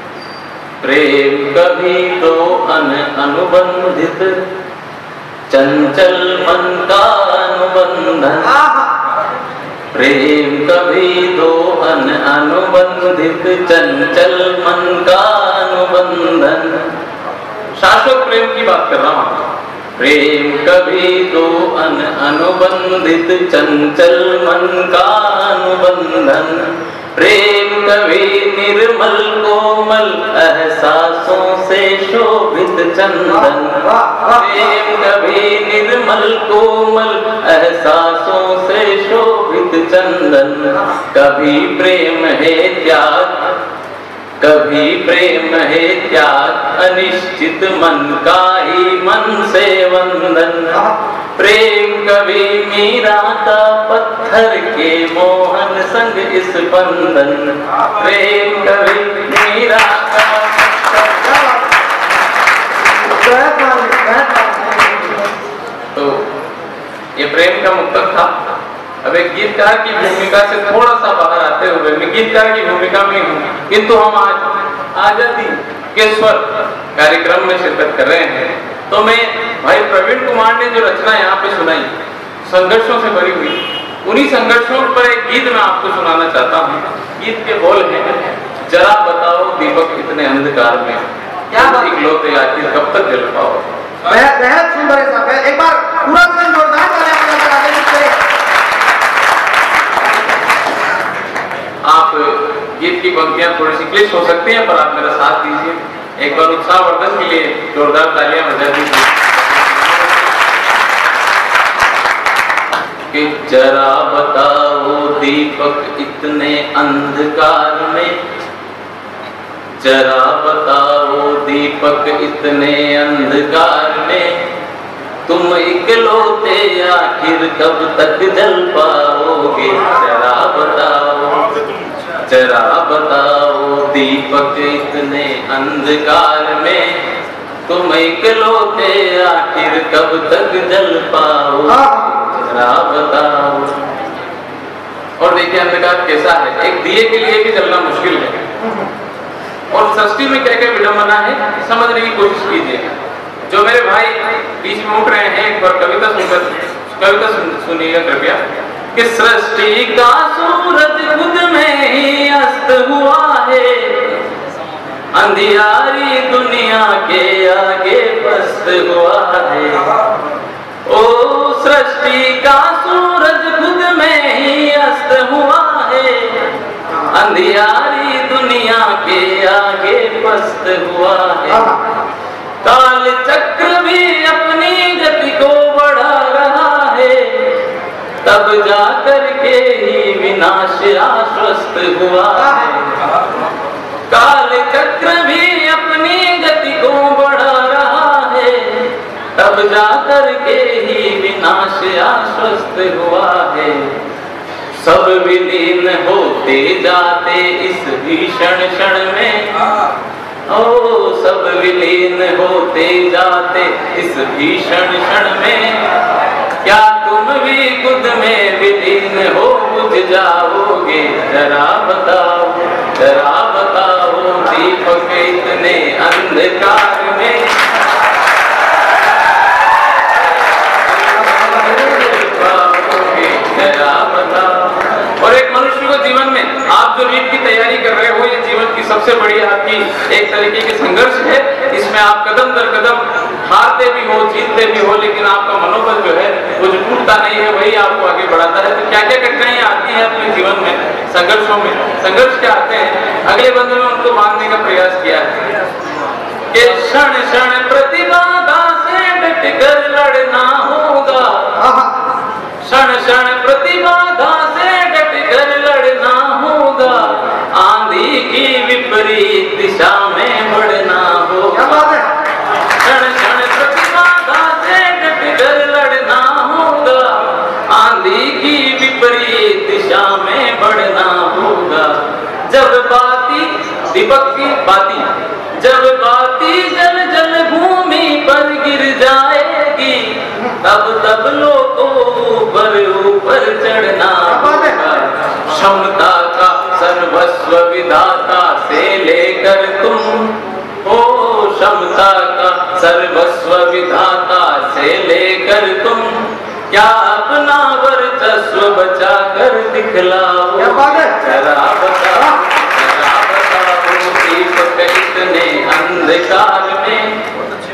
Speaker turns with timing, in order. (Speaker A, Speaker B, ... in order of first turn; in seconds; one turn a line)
Speaker A: 0.8-4.4
Speaker A: 5.5-8.5
Speaker B: 8.4-8.9
Speaker A: 9.9-16.9
Speaker A: 17.8-33.8
Speaker B: 33.3-34.7
Speaker A: 34.3-43.5
Speaker A: 44.4-50.8
Speaker B: 50.7-51.0
Speaker A: 51.4-60.7
Speaker B: 61.0-61.7
Speaker B: 63.0-65.2
Speaker A: 65.9-66.2
Speaker A: 67.2-68.3
Speaker A: 69.0-81.9
Speaker A: 82.4-93.8
Speaker B: 91.5-91.9
Speaker B: 94.1-98.2
Speaker A: 101.8-110.2
Speaker A: 113.1-118.2
Speaker A: 119.8-124.4
Speaker A: 125.3-131.5
Speaker A: 132.2-137.0
Speaker A: 137.7-143.9
Speaker B: 141.7-142.0
Speaker A: 145.2-148.4
Speaker B: 148.6-148.9
Speaker A: 149.7-152.9
Speaker A: 153.5-158.4
Speaker A: 158.9-164.2
Speaker A: 165.1-169.9
Speaker A: 170.8-176.5
Speaker B: 176.9-177.1
Speaker A: 177.1-181.8
Speaker B: 181.5-181.8
Speaker A: 182.6-187.6
Speaker A: 188.2-193.0
Speaker B: 192.3-192.7
Speaker A: 194.1-203.9
Speaker A: 204.8-209.7
Speaker A: 210.5-215.8
Speaker A: 216.6-227.6
Speaker A: 230.7-255.5
Speaker A: 256.5-261.5
Speaker B: 261.6-261.9
Speaker A: 262.6-271.9
Speaker B: 271.5-272.1
Speaker A: 272.8-281.9
Speaker A: 282.5-317.2
Speaker B: 294.2-294.8
Speaker B: 310.6-311.1